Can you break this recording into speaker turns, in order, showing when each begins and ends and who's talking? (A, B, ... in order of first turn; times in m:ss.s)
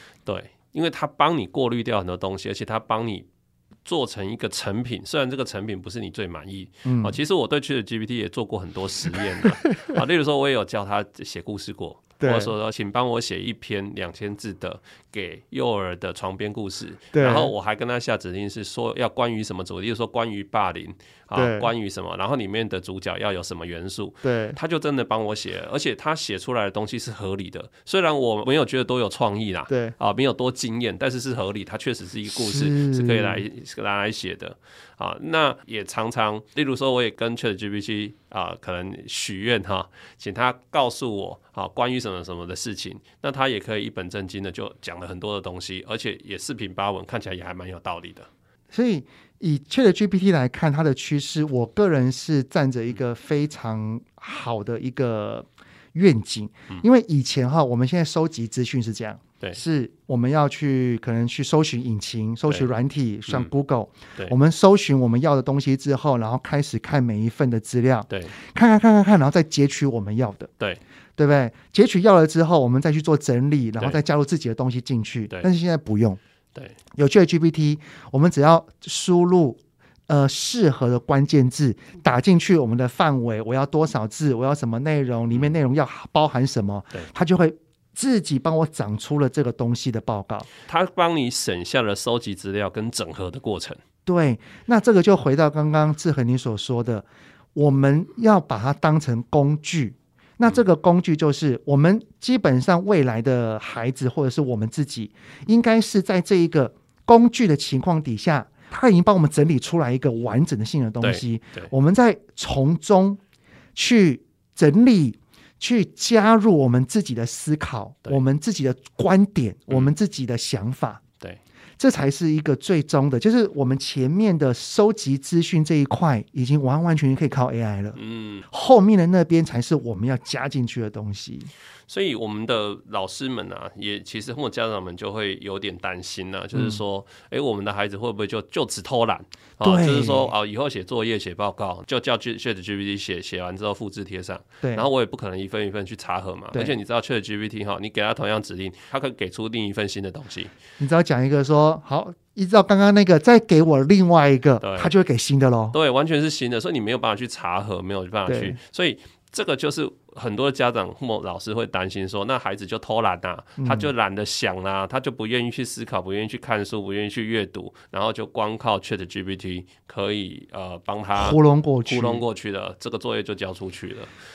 0:00.3-0:03.3 A
0:03.8-0:48.3 A
0:06.8-0:07.2 B
0:12.2-0:12.5 B
0:17.1-0:17.5 B
0:21.3-0:21.7 B
0:24.2-0:24.6 B
0:29.7-0:30.0 B
0:32.3-0:33.4 B
0:48.7-1:10.5 B
1:11.2-1:16.2 B
1:17.0-1:30.5 B
1:30.7-1:33.8 A
1:34.1-1:53.2 B
1:51.0-1:51.7 A
1:53.8-2:01.0 B
2:01.8-2:08.0 B
2:08.0-2:08.5 A
2:08.5-2:11.5 B
2:11.9-2:30.5 A
2:16.5-2:16.8 B
2:19.6-2:20.3 B
2:24.6-2:24.9 B
2:30.8-2:35.8 B
2:34.6-2:34.9 A
2:35.7-2:54.1 A
2:38.3-2:38.6 B
2:43.6-2:43.9 B
2:51.2-2:52.2 B